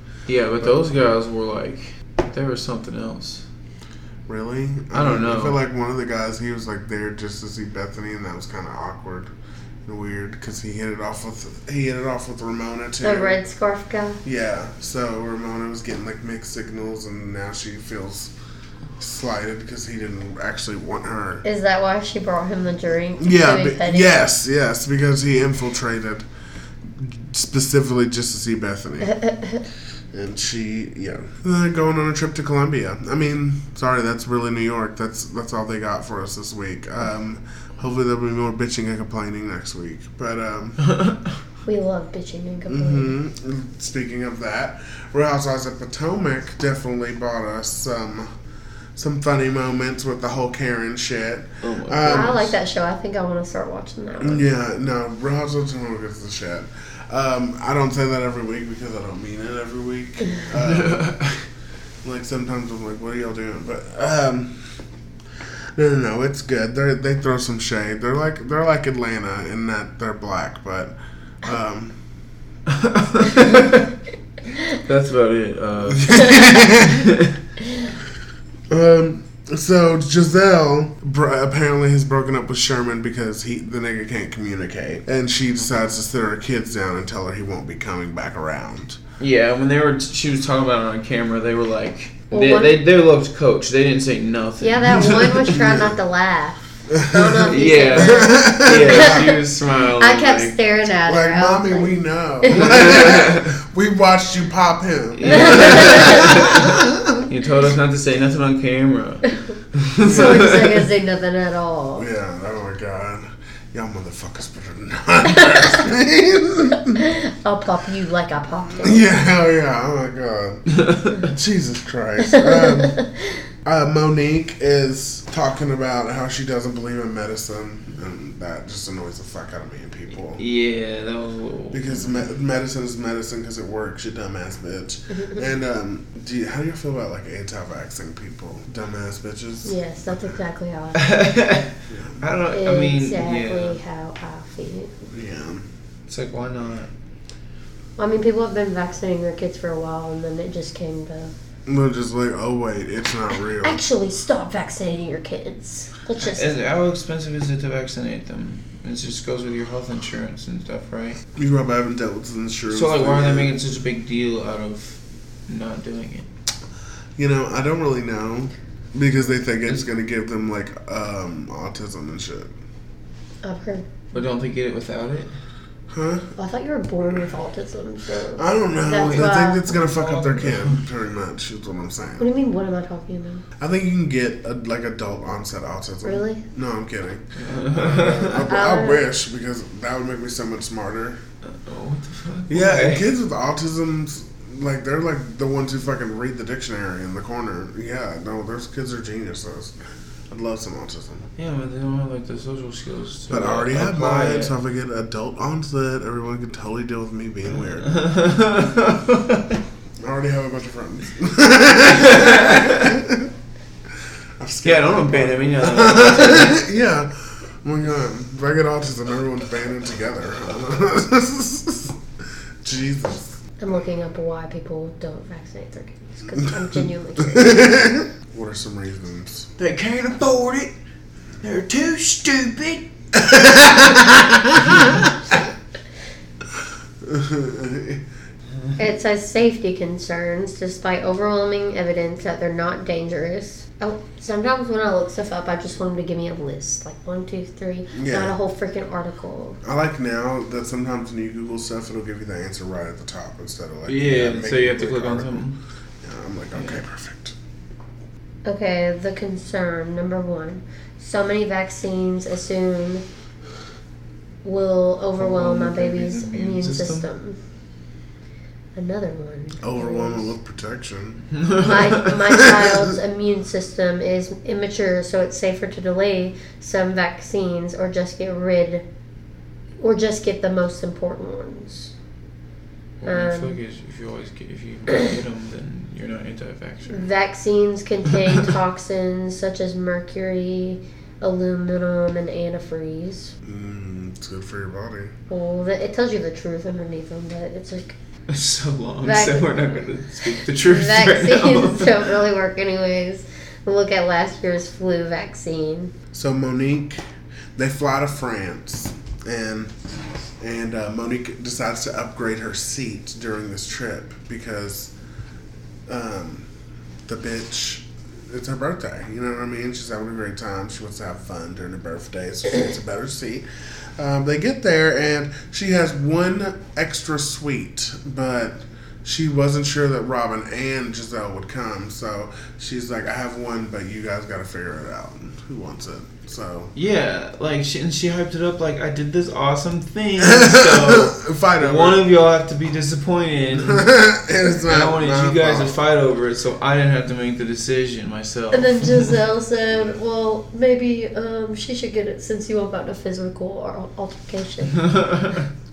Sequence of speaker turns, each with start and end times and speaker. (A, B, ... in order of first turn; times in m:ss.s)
0:00.3-0:03.4 A
0:04.3-0:09.3 B
0:04.9-0:05.6 A
0:09.8-0:13.4 B
0:13.0-0:14.2 C
0:14.2-0:18.3 B
0:19.0-0:21.4 B
0:21.4-0:24.2 C
0:23.2-0:26.3 B
0:27.0-0:29.2 B
0:29.0-0:29.6 C
0:30.1-0:40.8 B
0:40.8-0:41.3 A
0:41.7-0:43.2 C
0:42.7-0:48.3 B
0:49.0-0:52.5 B
0:51.6-0:52.4 A
0:52.1-0:54.4 C
0:54.2-1:01.3 B
1:00.6-1:01.4 A
1:02.0-1:04.6 B
1:05.8-1:12.0 B
1:12.7-1:13.9 A
1:14.6-1:17.4 A
1:15.9-1:17.1 B
1:18.7-1:29.0 B
1:29.2-1:35.6 A
1:32.3-1:32.8 C
1:34.6-1:39.4 C
1:35.5-1:35.9 B
1:36.9-1:39.3 B
1:37.5-1:40.6 A
1:40.0-1:43.0 C
1:41.0-1:47.2 B
1:42.5-1:43.5 A
1:45.2-1:50.8 A
1:45.3-1:46.3 C
1:50.0-1:52.1 C
1:52.0-1:57.0 B
1:57.0-1:59.1 C
1:58.8-2:03.0 B
2:02.2-2:03.4 C
2:03.6-2:10.4 B
2:10.4-2:12.2 A
2:11.7-2:20.3 B
2:15.1-2:15.4 C
2:19.6-2:21.2 C
2:21.0-2:21.7 A
2:21.9-2:22.3 B
2:22.2-2:23.8 A
2:22.5-2:24.9 C
2:25.1-2:25.6 B
2:26.1-2:26.9 A
2:28.0-2:31.3 C
2:31.7-2:33.8 B
2:33.6-2:36.5 C
2:36.2-2:41.2 A
2:41.4-2:43.5 B
2:42.7-2:46.3 A
2:47.2-2:52.5 B
2:53.4-2:53.9 C
2:54.1-2:55.3 A
2:55.9-2:56.3 B
2:56.4-2:59.6 C
2:58.4-3:02.3 B
2:58.9-3:00.8 A
3:02.2-3:03.4 C
3:03.6-3:11.2 B
3:06.0-3:06.4 C
3:07.4-3:08.4 A
3:08.5-3:09.0 C
3:11.4-3:13.1 A
3:12.5-3:19.8 B
3:20.3-3:21.3 B
3:21.4-3:24.6 A
3:23.3-3:28.0 B
3:27.7-3:29.6 A
3:30.0-3:33.3 B
3:32.2-3:32.7 A
3:34.4-3:42.0 B
3:34.6-3:36.6 A
3:42.6-3:43.4 B
3:43.6-3:47.7 C
3:46.4-3:49.5 B
3:49.6-3:50.7 A
3:51.4-3:52.9 A
3:53.1-3:55.4 B
3:54.6-3:55.0 A
3:57.0-3:58.0 B
3:58.8-4:09.6 C
4:07.9-4:08.4 B
4:09.6-4:15.4 B
4:13.9-4:15.6 A
4:16.0-4:17.4 B
4:16.6-4:16.8 A
4:18.5-4:23.0 C
4:24.4-4:27.4 C
4:25.2-4:27.1 A
4:28.8-4:30.3 C
4:29.6-4:31.3 B
4:31.4-4:32.0 A
4:31.6-4:38.8 C
4:32.0-4:32.8 B
4:39.8-4:41.9 C
4:43.0-4:47.1 A
4:43.0-4:43.6 C
4:46.9-4:53.3 C
4:53.4-4:55.1 B
4:55.3-4:58.0 C
4:58.3-5:02.1 A
4:59.0-5:05.9 C
5:06.1-5:07.0 B
5:07.6-5:09.7 B
5:10.4-5:14.9 B
5:15.9-5:16.5 B
5:17.1-5:23.5 B
5:24.0-5:36.7 B
5:36.8-5:43.9 A
5:40.2-5:42.0 B
5:43.6-5:45.8 B
5:44.6-5:49.2 A
5:48.5-5:54.9 C
5:54.8-5:55.4 A